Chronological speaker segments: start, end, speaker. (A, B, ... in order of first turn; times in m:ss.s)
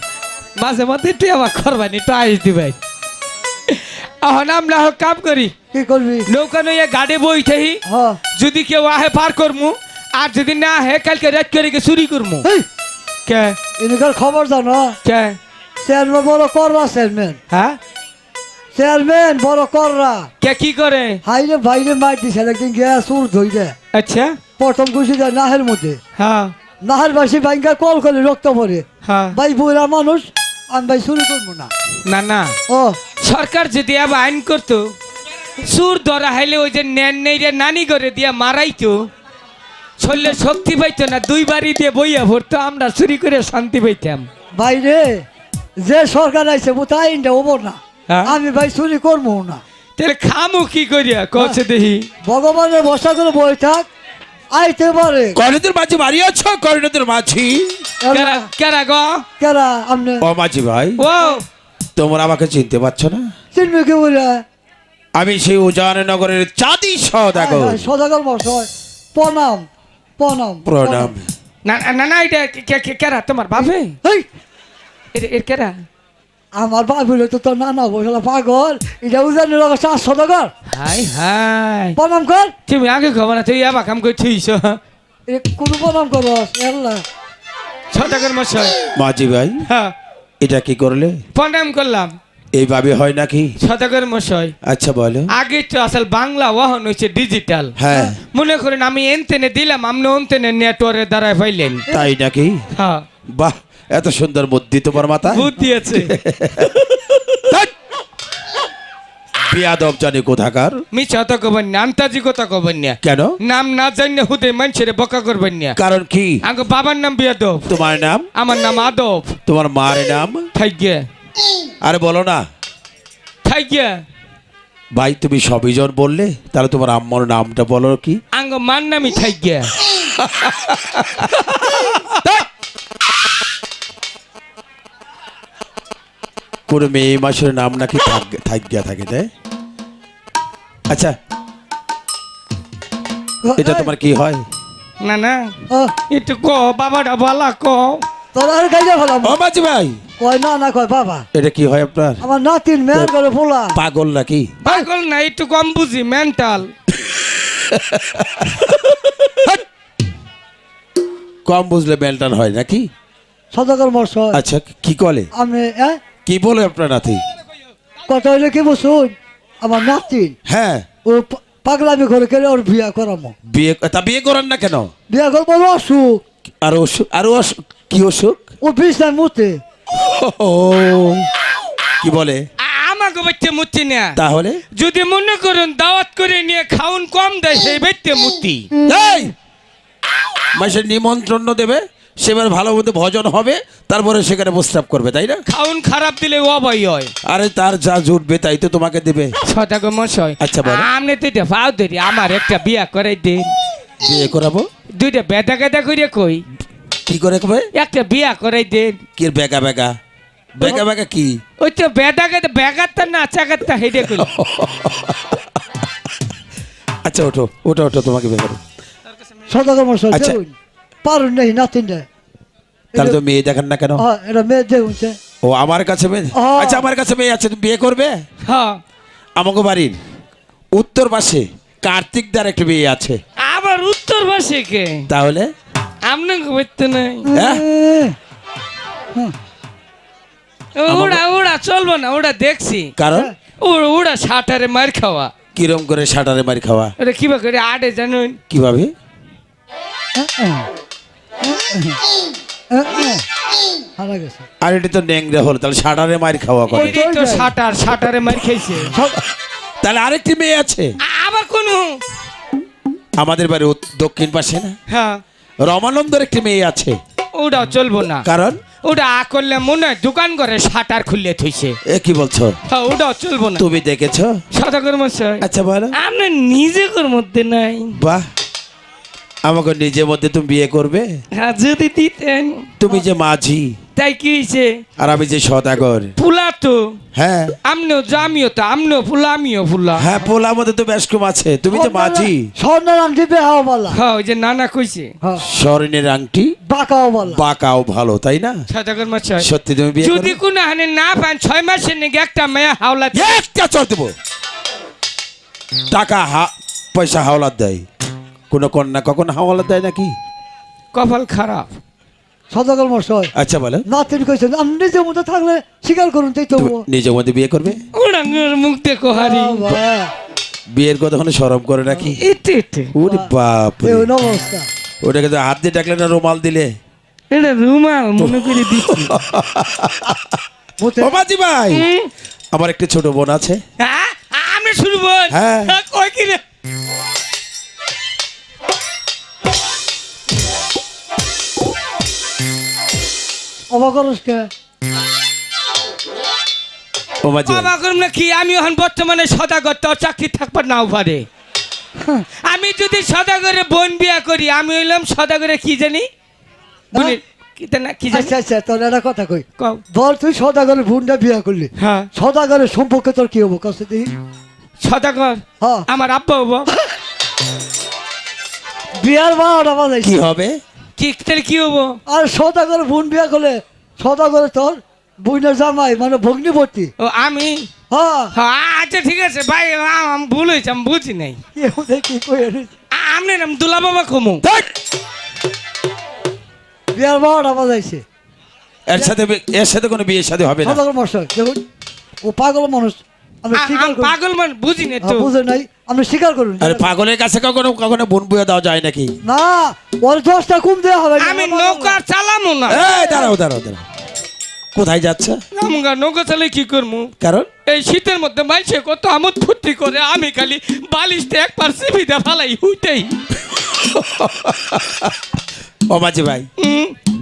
0:00.6-0:02.8 A
0:03.7-0:05.5 A
0:05.7-0:06.3 B
0:06.3-0:07.8 A
0:07.9-0:08.2 B
0:08.4-0:12.5 A
0:13.3-0:13.6 A
0:13.8-0:15.0 B
0:15.0-0:15.4 A
0:15.8-0:17.4 B
0:17.5-0:17.8 A
0:18.7-0:20.3 B
0:20.4-0:21.2 A
0:21.2-0:23.8 B
0:23.9-0:24.4 A
0:24.6-0:26.0 B
0:26.2-0:26.5 A
0:26.8-0:31.7 B
0:29.0-0:29.4 A
0:32.0-0:32.6 A
0:32.7-0:33.0 B
0:33.2-0:35.0 A
0:35.6-0:39.1 A
0:40.0-0:44.3 A
0:44.5-0:45.2 B
0:45.8-0:49.6 B
0:48.1-0:48.4 A
0:50.0-0:52.1 A
0:52.2-0:53.9 B
0:54.5-0:55.4 B
0:55.4-0:57.8 C
0:58.0-0:58.5 B
0:58.1-0:59.2 A
0:59.4-1:00.3 B
1:00.2-1:01.0 C
1:01.0-1:01.4 A
1:02.0-1:03.3 C
1:03.5-1:04.4 B
1:05.2-1:07.9 C
1:07.3-1:09.7 B
1:10.2-1:11.1 B
1:10.6-1:11.3 C
1:11.6-1:14.0 A
1:13.6-1:14.3 B
1:15.1-1:15.8 A
1:16.5-1:20.5 B
1:20.7-1:22.0 A
1:22.0-1:22.5 B
1:22.7-1:24.8 A
1:25.3-1:27.0 B
1:27.9-1:28.8 A
1:28.9-1:29.6 C
1:29.6-1:29.9 A
1:30.4-1:31.2 C
1:31.3-1:32.1 A
1:32.5-1:33.5 C
1:33.6-1:34.6 A
1:34.6-1:35.3 C
1:35.3-1:37.8 A
1:37.8-1:38.2 C
1:38.3-1:41.9 A
1:41.9-1:42.1 B
1:41.9-1:42.6 C
1:42.8-1:43.1 A
1:43.3-1:45.5 C
1:45.3-1:46.1 A
1:46.0-1:47.7 C
1:49.5-1:50.8 C
1:50.9-1:55.8 A
1:53.0-1:53.4 C
1:55.8-1:56.4 C
1:56.4-1:57.7 A
1:57.7-1:58.3 C
1:58.4-1:59.4 A
1:59.5-2:00.5 C
2:00.5-2:01.1 A
2:01.8-2:02.4 C
2:03.4-2:04.0 A
2:04.9-2:08.2 C
2:08.3-2:09.7 A
2:10.0-2:12.5 C
2:11.5-2:12.0 A
2:16.7-2:19.3 C
2:20.9-2:21.2 C
2:23.4-2:23.9 B
2:23.6-2:24.4 C
2:25.0-2:25.6 A
2:26.1-2:28.0 A
2:28.4-2:29.4 B
2:29.2-2:30.0 C
2:30.2-2:31.2 B
2:31.3-2:32.2 C
2:32.2-2:33.8 B
2:33.7-2:34.6 C
2:34.6-2:36.7 A
2:37.4-2:39.6 C
2:41.5-2:42.9 C
2:43.5-2:44.4 B
2:44.3-2:45.3 C
2:45.3-2:46.0 B
2:46.2-2:47.2 C
2:48.1-2:50.4 B
2:50.5-2:50.9 C
2:51.0-2:53.3 B
2:53.5-2:54.9 C
2:55.1-2:56.2 B
2:56.6-2:58.4 C
2:58.6-2:59.6 B
2:59.9-3:01.3 C
3:02.0-3:02.4 C
3:02.6-3:04.2 A
3:04.2-3:04.6 C
3:04.7-3:08.7 A
3:08.7-3:09.3 B
3:08.9-3:09.3 C
3:10.6-3:15.4 C
3:15.5-3:17.1 A
3:17.2-3:19.4 C
3:19.4-3:23.5 A
3:20.4-3:20.9 C
3:24.0-3:24.7 C
3:24.9-3:26.4 A
3:27.1-3:27.7 C
3:27.7-3:29.0 A
3:29.2-3:29.9 C
3:30.6-3:31.4 C
3:30.6-3:30.9 B
3:31.6-3:34.3 A
3:34.0-3:35.4 C
3:37.0-3:38.6 C
3:39.5-3:42.1 B
3:40.1-3:40.4 C
3:42.9-3:43.2 B
3:43.0-3:44.0 C
3:44.0-3:45.2 B
3:45.4-3:48.2 C
3:46.3-3:46.9 B
3:48.4-3:48.8 A
3:49.4-3:50.0 C
3:50.8-3:53.2 C
3:53.4-3:55.1 A
3:55.1-3:55.5 C
3:56.0-3:57.3 A
3:57.3-3:58.2 B
3:57.3-3:57.6 C
4:00.8-4:02.9 A
4:00.9-4:01.2 C
4:03.0-4:03.3 C
4:03.6-4:05.3 A
4:05.6-4:06.9 C
4:07.0-4:08.4 A
4:08.5-4:08.9 C
4:10.2-4:10.7 B
4:11.4-4:12.0 B
4:12.7-4:13.2 B
4:14.0-4:14.5 B
4:14.6-4:17.0 C
4:16.7-4:18.9 A
4:16.7-4:17.5 B
4:18.9-4:19.2 B
4:19.8-4:20.9 C
4:21.0-4:22.0 A
4:23.2-4:24.8 C
4:24.9-4:25.2 A
4:25.6-4:27.0 C
4:27.4-4:28.2 A
4:28.2-4:28.6 C
4:28.8-4:31.8 A
4:31.9-4:32.6 C
4:32.7-4:33.6 A
4:33.6-4:34.4 C
4:34.5-4:38.0 A
4:35.4-4:36.0 C
4:38.0-4:38.2 C
4:39.4-4:41.1 C
4:41.4-4:42.7 A
4:42.8-4:43.8 C
4:44.0-4:44.8 A
4:45.0-4:46.1 C
4:46.2-4:47.0 A
4:47.2-4:47.6 C
4:47.6-4:50.1 A
4:50.0-4:52.5 C
4:51.7-4:54.0 B
4:53.9-4:55.1 A
4:55.4-4:56.5 C
4:56.7-4:57.4 B
4:57.3-4:58.6 C
4:58.7-4:59.5 A
4:59.4-5:00.4 C
5:00.0-5:03.4 A
5:03.1-5:04.1 C
5:05.9-5:07.8 C
5:08.5-5:10.1 C
5:10.9-5:11.7 A
5:12.5-5:13.3 B
5:13.4-5:13.8 C
5:13.9-5:16.8 B
5:16.6-5:17.8 C
5:17.9-5:19.6 A
5:19.1-5:20.1 B
5:20.7-5:22.2 C
5:22.1-5:22.9 A
5:22.9-5:24.1 C
5:23.8-5:24.7 B
5:25.0-5:26.7 C
5:27.3-5:29.2 A
5:28.2-5:30.3 C
5:30.8-5:31.2 B
5:31.0-5:31.9 C
5:31.7-5:32.1 A
5:32.5-5:33.6 C
5:33.8-5:36.4 A
5:35.3-5:35.8 C
5:43.7-5:44.5 B
5:47.2-5:47.7 C
5:47.4-5:51.3 A
5:52.0-5:52.3 B
5:52.4-5:56.1 A
5:56.9-5:57.2 B
5:56.9-5:58.3 A
5:58.1-6:04.1 B
6:01.8-6:02.1 A
6:04.8-6:06.7 A
6:05.6-6:05.9 B
6:09.0-6:10.2 B
6:10.0-6:10.6 C
6:11.0-6:12.0 A
6:12.1-6:16.9 B
6:17.0-6:17.7 A
6:17.9-6:18.3 B
6:18.3-6:21.4 A
6:21.6-6:22.7 B
6:22.9-6:24.4 A
6:26.9-6:28.0 B
6:28.9-6:30.8 C
6:30.6-6:31.6 B
6:32.2-6:34.2 B
6:33.5-6:35.3 A
6:35.0-6:36.9 B
6:36.6-6:39.1 C
6:39.2-6:42.0 B
6:41.2-6:42.9 A
6:42.7-6:43.8 C
6:43.0-6:43.3 B
6:44.8-6:45.4 C
6:45.5-6:47.1 A
6:47.2-6:47.5 C
6:47.7-6:53.2 A
6:53.5-6:55.2 C
6:55.9-6:56.5 C
6:56.6-6:57.0 A